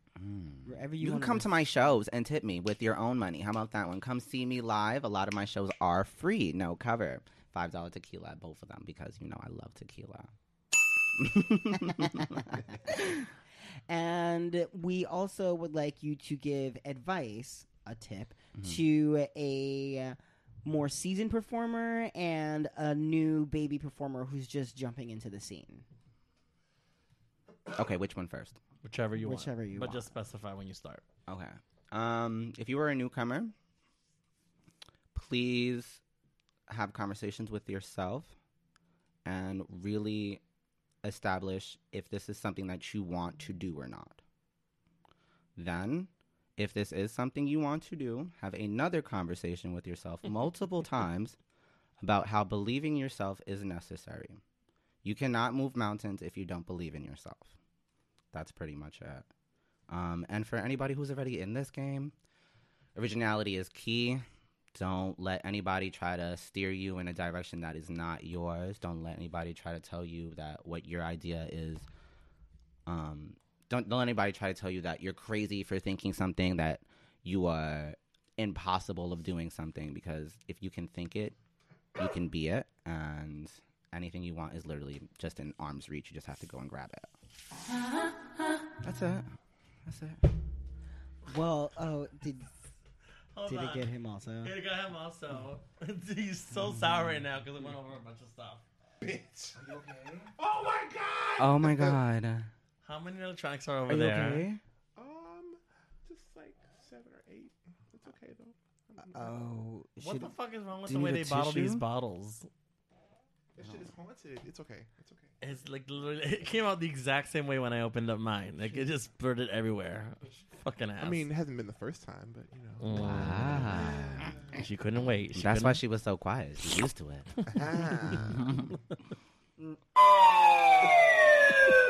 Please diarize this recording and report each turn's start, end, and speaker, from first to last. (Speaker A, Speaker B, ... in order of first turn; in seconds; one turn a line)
Speaker A: 0.1-10.3
Speaker B: 0.6-1.5
Speaker A: 11.1-12.7
Speaker B: 11.9-12.3
Speaker B: 12.8-13.2
Speaker B: 13.9-25.8
Speaker A: 27.7-28.6
Speaker C: 28.8-31.0
Speaker B: 29.2-30.1
Speaker A: 31.3-33.5
Speaker A: 35.1-36.0
Speaker A: 36.7-38.3
Speaker A: 39.2-40.4
Speaker A: 41.0-44.2
Speaker A: 45.6-51.4
Speaker A: 52.0-54.4
Speaker A: 55.0-57.5
Speaker A: 58.3-59.3
Speaker A: 59.9-62.1
Speaker A: 62.9-64.2
Speaker A: 64.7-71.8
Speaker A: 72.8-81.3
Speaker A: 82.0-87.1
Speaker A: 88.8-89.3
Speaker A: 89.8-90.2
Speaker B: 91.2-92.5
Speaker C: 93.3-93.9
Speaker B: 93.5-94.5
Speaker C: 94.4-98.6
Speaker D: 99.0-99.7
Speaker D: 100.3-102.0
Speaker A: 101.4-102.5
Speaker C: 102.8-104.4
Speaker A: 103.9-104.6
Speaker D: 105.0-109.3
Speaker B: 109.1-110.3
Speaker C: 110.0-112.5
Speaker A: 110.9-111.8
Speaker D: 113.5-115.3
Speaker C: 115.4-121.2
Speaker D: 121.0-124.6
Speaker C: 122.8-123.8
Speaker B: 123.0-123.5
Speaker A: 123.0-124.3
Speaker C: 124.5-125.8
Speaker A: 125.3-127.4
Speaker D: 127.5-128.5
Speaker A: 128.2-128.7